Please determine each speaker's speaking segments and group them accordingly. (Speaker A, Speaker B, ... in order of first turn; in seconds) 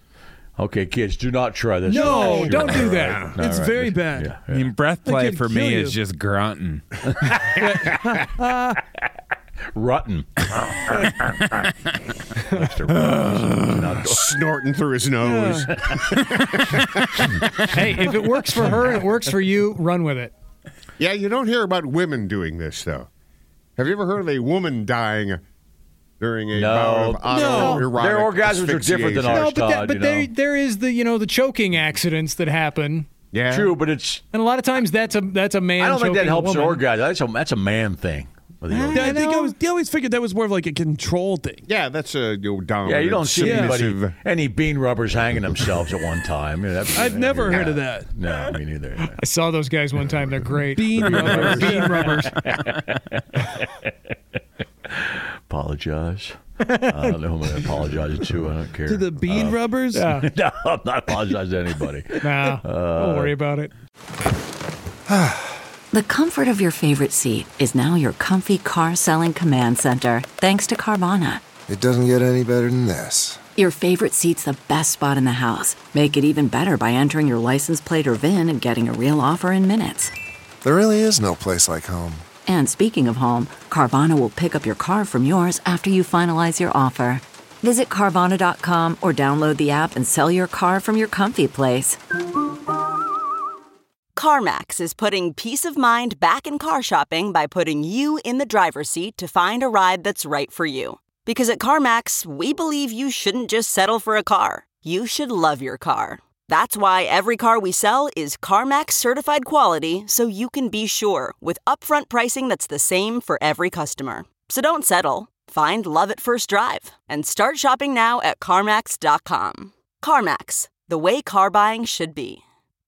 Speaker A: 0.6-4.7, 9.7-10.5, 12.5-14.4, 26.5-30.3, 33.5-34.2, 35.8-39.2, 42.9-49.2, 51.0-53.7, 54.9-56.4, 56.9-63.3
Speaker B: 1.9-3.3, 17.7-20.3, 29.3-33.1, 34.3-36.8, 38.7-39.5, 49.1-52.4, 56.6-57.1, 59.9-60.3, 62.2-63.7
Speaker C: 1.9-4.4, 5.0-6.0, 7.6-8.8, 15.2-15.7, 27.3-27.9, 38.9-41.6, 43.4-43.8, 46.9-48.1, 50.7-52.2, 58.9-60.1
Speaker D: 4.5-7.1, 12.9-13.8
Speaker E: 14.0-17.7, 21.0-23.1, 23.8-25.4, 26.2-29.4, 33.3-33.8, 41.7-44.1
Speaker F: 65.9-71.4, 73.6-80.1, 82.5-92.0
Speaker G: 71.7-73.4, 80.6-82.2
Speaker H: 94.2-122.4